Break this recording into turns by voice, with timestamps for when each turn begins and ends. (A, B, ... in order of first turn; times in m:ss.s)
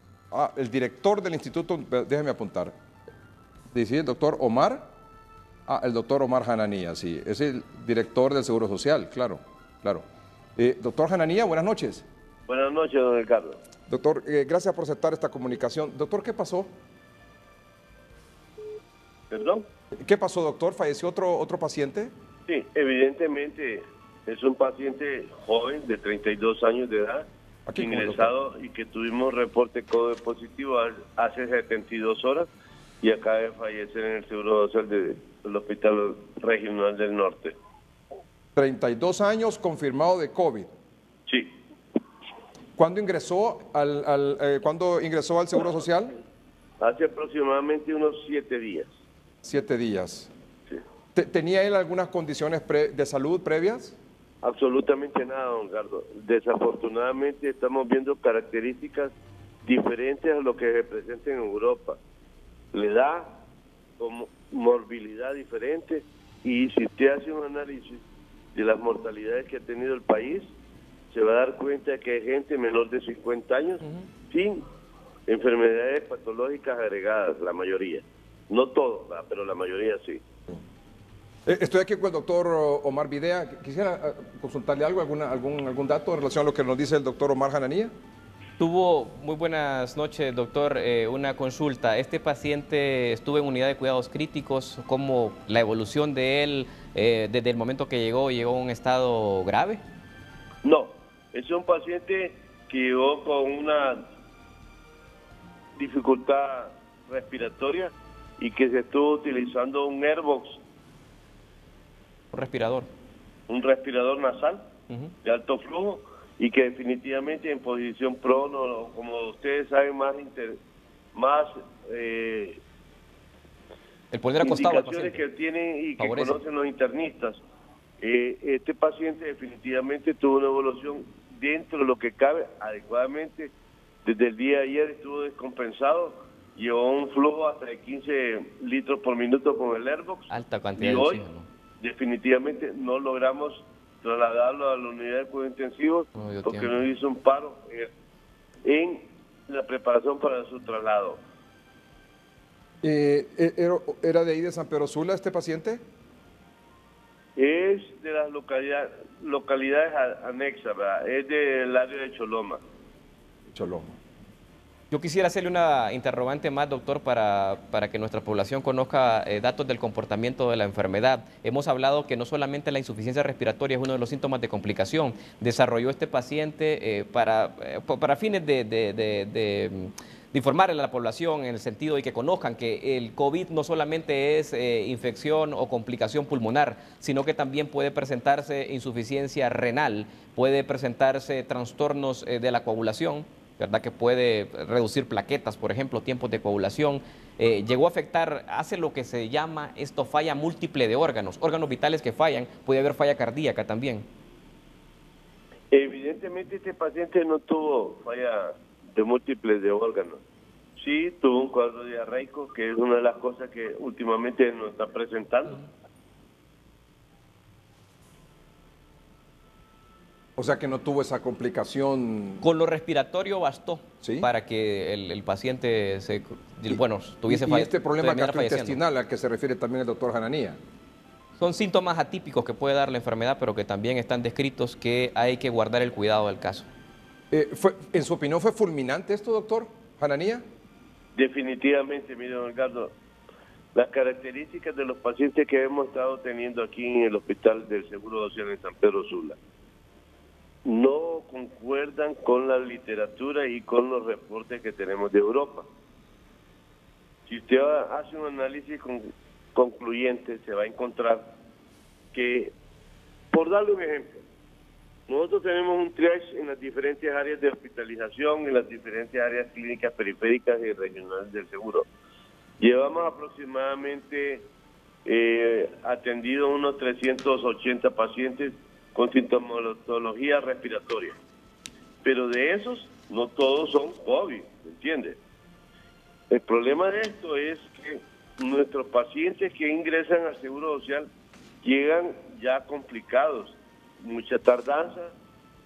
0:00.3-0:02.7 A
0:03.7-0:04.8 A
0:05.7-0:10.0 A
0:10.6-0:12.1 A
0:12.5-0:13.6 B
0:13.9-0:16.7 A
0:19.3-0:19.7 B
0:20.0-0:22.1 A
0:22.5-0:32.5 B
0:27.7-0:28.3 A
0:33.0-0:37.6 B
0:38.6-0:40.7 A
0:41.3-0:41.5 B
0:42.8-0:46.2 A
0:46.8-0:48.9 B
0:49.4-0:50.3 A
0:51.2-0:54.0 A
0:54.4-0:59.1 B
0:59.6-1:02.0 B
1:02.7-1:03.4 B
1:04.0-1:08.0 B
1:08.6-1:10.5 B
1:11.1-1:14.6 B
1:15.3-1:20.2 B
1:21.5-1:27.9 A
1:28.6-1:39.8 C
1:40.6-1:44.0 B
1:45.8-1:50.6 B
1:52.3-1:52.9 C
1:53.5-1:54.6 B
1:55.2-2:00.6 B
2:01.1-2:02.6 B
2:04.1-2:05.2 C
2:04.4-2:07.4 B
2:06.0-2:06.4 C
2:08.0-2:13.5 B
2:14.0-2:21.2 B
2:20.3-2:21.5 C
2:21.8-2:27.9 B
2:26.2-2:26.8 C
2:28.6-2:31.2 B
2:32.8-2:35.8 A
2:37.4-2:42.6 B
2:43.5-2:44.0 A
2:44.9-3:24.1 C
3:25.7-3:30.2 B
3:30.8-3:35.6 B
3:40.4-3:42.4 A
3:42.4-3:48.8 C
3:44.0-3:44.3 A
3:46.7-3:50.6 A
3:51.4-3:56.7 C
3:57.3-4:00.4 A
4:01.2-4:02.9 B
4:03.7-4:09.4 B
4:10.6-4:15.7 B
4:17.3-4:21.3 B
4:22.1-4:22.5 B
4:23.3-4:24.2 B
4:25.1-4:31.9 B
4:32.6-4:34.5 B
4:35.0-4:41.2 B
4:42.0-4:45.2 B
4:46.3-4:51.1 B
4:51.6-4:55.1 B